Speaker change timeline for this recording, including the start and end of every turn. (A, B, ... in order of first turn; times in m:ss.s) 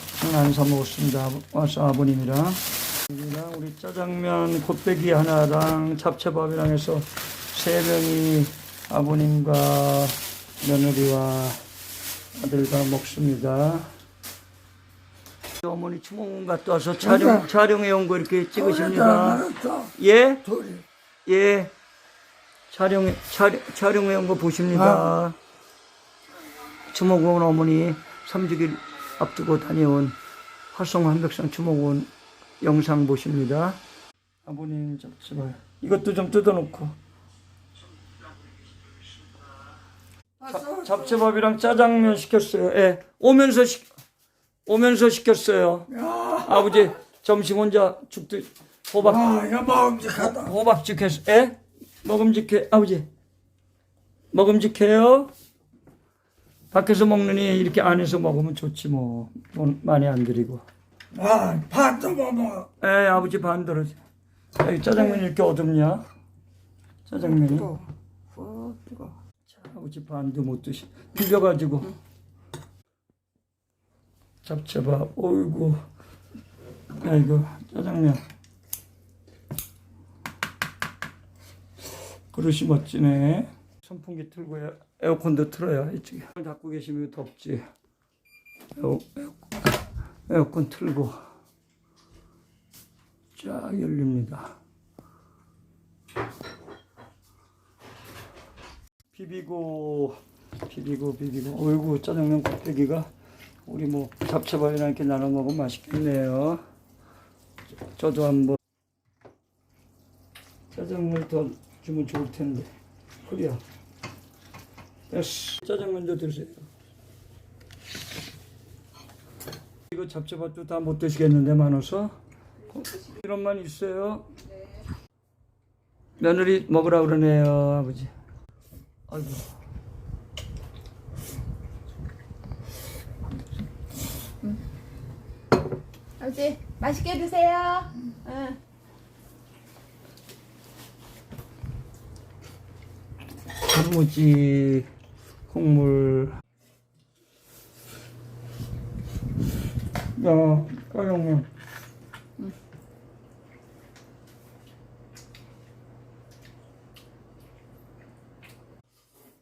0:00.2-0:11.6 A
0:12.3-0:13.9 A
0:15.6-0:20.5 A
0:18.7-0:19.9 B
0:20.5-0:20.8 B
0:21.2-0:21.7 A
0:22.7-0:25.4 A
0:26.9-0:30.2 A
0:30.7-0:33.8 A
0:34.4-0:36.9 A
0:40.4-0:43.9 A
0:44.6-0:49.3 A
0:46.0-0:46.4 B
0:49.0-0:50.5 B
0:50.1-0:53.1 A
0:54.3-0:55.3 A
0:56.7-1:00.6 A
1:01.1-1:02.7 B
1:02.8-1:04.0 A
1:04.6-1:06.0 A
1:07.0-1:07.8 A
1:08.4-1:08.8 B
1:08.5-1:12.0 A
1:14.4-1:15.8 A
1:17.0-1:18.2 A
1:22.3-1:27.6 A
1:28.7-1:29.6 A
1:30.3-1:31.2 A
1:33.3-1:34.5 A
1:39.1-1:43.1 A
1:43.6-1:46.6 A
1:47.9-1:48.6 A
1:50.7-1:52.7 A
1:53.2-1:53.6 A
1:55.1-1:56.7 A
1:59.9-2:02.2 A
2:02.7-2:04.3 A
2:06.2-2:08.1 A
2:09.1-2:09.4 A
2:16.2-2:18.6 C
2:23.6-2:24.9 A
2:25.5-2:26.4 A
2:30.1-2:31.5 A